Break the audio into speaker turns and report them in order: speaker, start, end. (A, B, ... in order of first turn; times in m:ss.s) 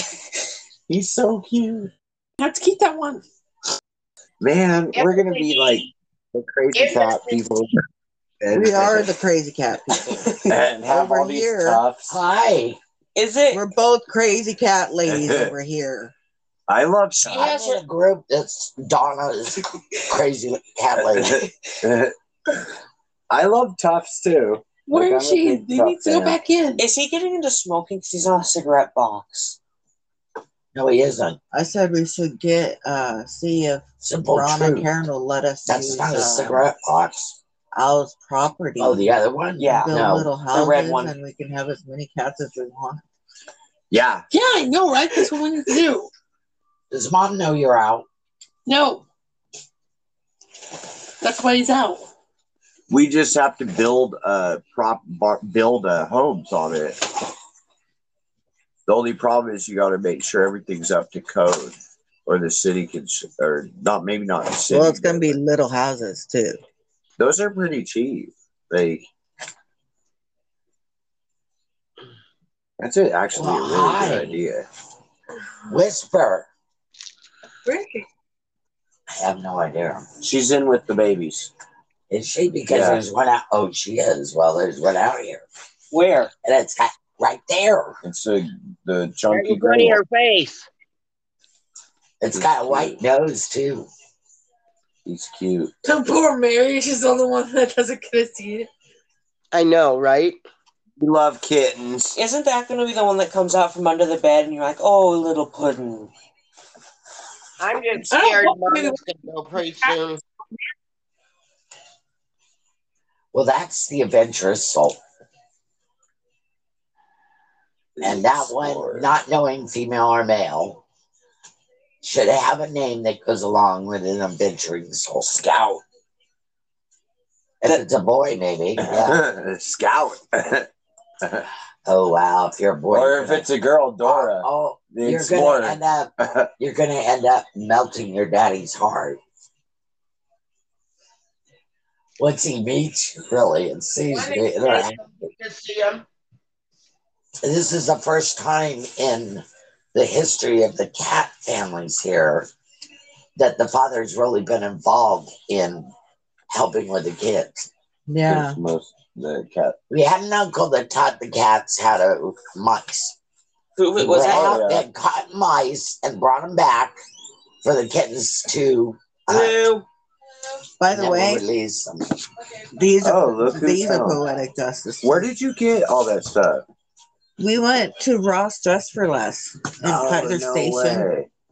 0:00.9-0:01.9 A
0:02.4-0:03.2 B
0:04.4-0:07.8 A
0:04.9-0:05.9 C
0:06.7-0:07.4 C
0:08.4-0:09.1 A
0:08.5-0:11.8 D
0:10.5-0:12.1 A
0:12.1-0:12.8 E
0:13.1-0:13.6 F
0:13.5-0:16.1 D
0:15.0-0:15.5 A
0:16.7-0:17.6 A
0:17.2-0:21.5 E
0:21.1-0:22.7 A
0:23.3-0:26.4 A
0:24.8-0:26.8 B
0:26.8-0:29.6 F
0:30.7-0:31.4 E
0:31.5-0:36.6 D
0:34.0-0:34.9 E
0:35.7-0:37.4 E
0:37.7-0:39.1 D
0:38.8-0:40.3 E
0:39.6-0:40.0 F
0:39.7-0:43.0 D
0:40.5-0:41.1 F
0:43.9-0:44.2 A
0:44.3-0:46.1 B
0:46.9-0:48.0 E
0:48.6-0:49.0 B
0:51.2-0:52.0 B
0:52.9-0:57.2 A
0:58.9-1:05.4 A
1:04.7-1:06.6 D
1:07.2-1:09.0 A
1:12.8-1:14.6 A
1:13.3-1:14.4 E
1:15.7-1:16.5 E
1:17.6-1:18.0 B
1:19.1-1:20.0 E
1:20.2-1:21.5 A
1:22.1-1:25.4 E
1:22.7-1:23.0 A
1:25.9-1:26.3 F
1:26.4-1:28.0 E
1:28.0-1:30.0 A
1:29.3-1:30.7 C
1:32.2-1:33.9 E
1:32.3-1:33.0 A
1:35.0-1:35.7 A
1:35.8-1:38.7 B
1:39.5-1:40.4 C
1:41.0-1:42.1 A
1:42.1-1:46.1 F
1:47.6-1:50.2 C
1:48.1-1:49.0 B
1:49.6-1:50.0 B
1:53.3-1:55.0 E
1:58.0-1:59.1 A
1:58.0-2:00.8 E
2:02.0-2:05.4 E
2:05.3-2:05.8 A
2:07.6-2:09.2 E
2:08.8-2:10.7 A
2:11.8-2:13.4 E
2:12.9-2:16.5 A
2:14.0-2:19.2 E
2:22.2-2:25.0 E
2:24.1-2:26.0 C
2:27.4-2:32.5 E
2:33.4-2:35.9 E
2:36.5-2:37.7 E
2:38.1-2:38.6 D
2:38.2-2:39.8 A
2:39.9-2:43.2 E
2:43.8-2:44.6 F
2:44.0-2:47.0 E
2:44.2-2:44.8 A
2:47.6-2:49.6 E
2:49.3-2:49.8 F
2:50.8-2:51.4 D
2:50.9-2:52.1 E
2:52.7-2:55.3 D
2:53.0-2:54.2 A
2:55.0-2:56.6 A
2:57.4-3:01.1 D
2:59.8-3:01.3 A